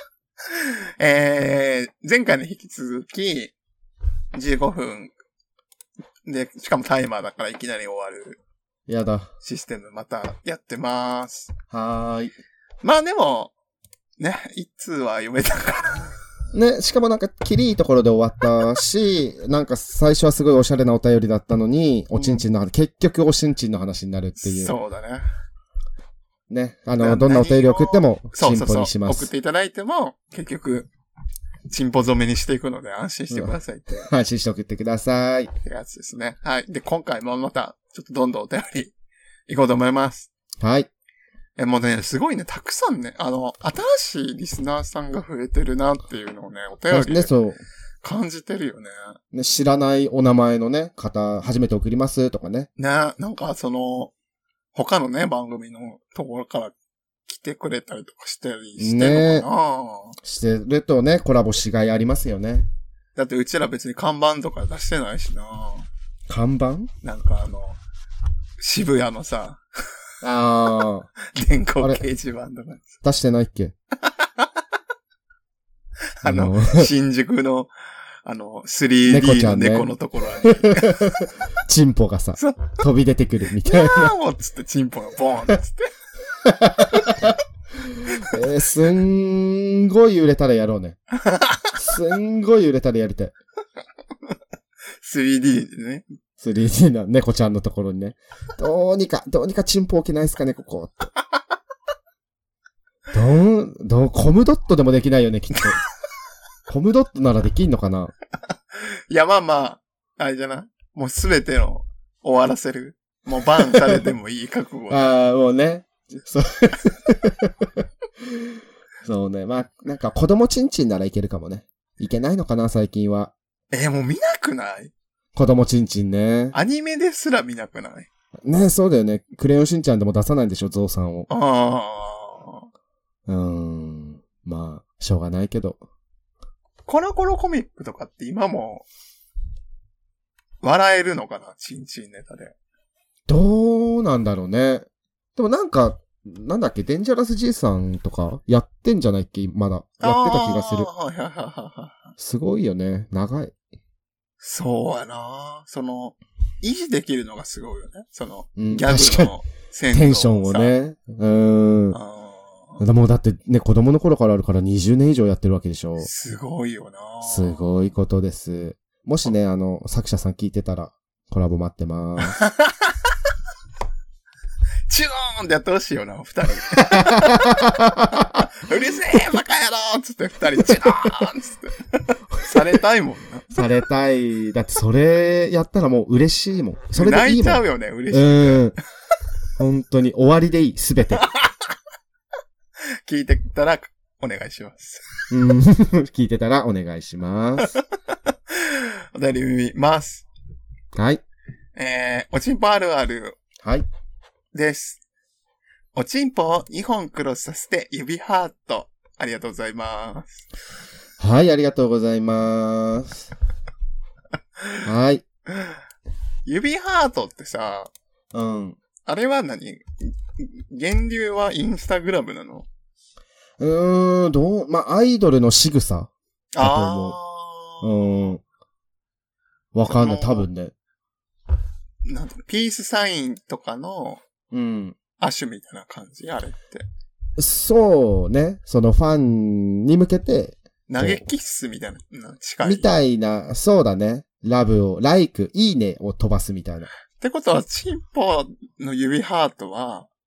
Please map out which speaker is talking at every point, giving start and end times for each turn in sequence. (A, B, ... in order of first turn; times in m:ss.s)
0:00.5-0:03.5 A
0:04.4-0:05.1 A
0:06.3-0:08.4 A
0:08.9-0:09.3 B
0:09.4-0:11.5 A
0:11.7-0:12.3 B
0:12.8-0:13.5 A
0:14.2-0:16.1 A
0:16.5-0:24.8 B
0:22.1-0:22.4 A
0:24.4-0:25.3 A
0:26.5-0:29.3 B
0:27.0-0:30.9 A
0:31.7-0:34.1 A
0:33.3-0:35.5 B
0:35.6-0:38.9 A
0:39.5-0:40.3 A
0:40.6-0:40.9 B
0:41.6-0:47.3 A
0:46.9-0:47.6 B
0:48.0-0:49.2 A
0:49.3-0:52.7 B
0:52.8-0:54.1 A
0:54.7-0:56.8 A
0:57.3-1:00.2 A
0:58.8-0:59.5 B
1:00.2-1:02.7 B
1:03.2-1:05.9 A
1:06.3-1:06.9 B
1:07.0-1:07.8 A
1:08.6-1:09.6 A
1:10.2-1:11.2 B
1:11.3-1:12.9 A
1:13.0-1:13.7 B
1:14.0-1:14.6 A
1:16.2-1:17.7 A
1:16.2-1:16.9 B
1:18.2-1:21.3 A
1:19.1-1:19.9 B
1:20.4-1:24.1 B
1:22.4-1:22.8 A
1:23.6-1:25.9 A
1:26.4-1:27.3 B
1:28.2-1:31.0 B
1:31.2-1:31.7 A
1:31.8-1:33.3 B
1:35.0-1:36.1 A
1:36.4-1:41.1 B
1:43.1-1:45.8 B
1:46.7-1:48.1 B
1:48.8-1:55.0 A
1:53.6-1:54.0 B
1:54.9-1:58.4 B
1:59.0-2:03.3 B
2:03.7-2:04.9 A
2:05.4-2:06.6 B
2:06.5-2:08.1 A
2:08.4-2:11.3 B
2:11.3-2:12.7 A
2:13.3-2:15.8 B
2:16.9-2:18.9 A
2:20.6-2:22.6 A
2:23.3-2:30.9 B
2:30.0-2:32.1 A
2:32.2-2:33.5 B
2:34.4-2:40.7 A
2:38.6-2:39.4 B
2:39.9-2:42.0 B
2:41.9-2:42.8 A
2:42.8-2:46.1 B
2:46.0-2:47.7 A
2:47.2-2:52.4 B
2:52.4-2:53.0 A
2:54.9-3:03.5 A
2:56.9-2:58.4 B
3:03.5-3:08.8 B
3:07.0-3:08.6 A
3:09.6-3:11.3 B
3:11.2-3:11.6 A
3:13.1-3:15.1 A
3:15.3-3:17.8 B
3:17.6-3:20.2 A
3:21.0-3:21.2 B
3:21.8-3:23.4 A
3:24.5-3:25.0 A
3:26.0-3:30.5 A
3:31.2-3:33.3 B
3:34.8-3:35.2 B
3:36.4-3:37.9 A
3:38.3-3:38.8 B
3:39.1-3:39.8 A
3:40.4-3:42.7 A
3:43.6-3:47.2 B
3:46.6-3:48.3 A
3:47.8-3:48.4 B
3:49.7-3:50.7 B
3:49.9-3:50.5 A
3:52.0-3:54.2 A
3:54.5-3:55.0 B
3:55.2-3:56.8 A
3:57.4-4:01.2 B
4:00.9-4:02.9 A
4:02.6-4:06.9 B
4:07.2-4:10.1 A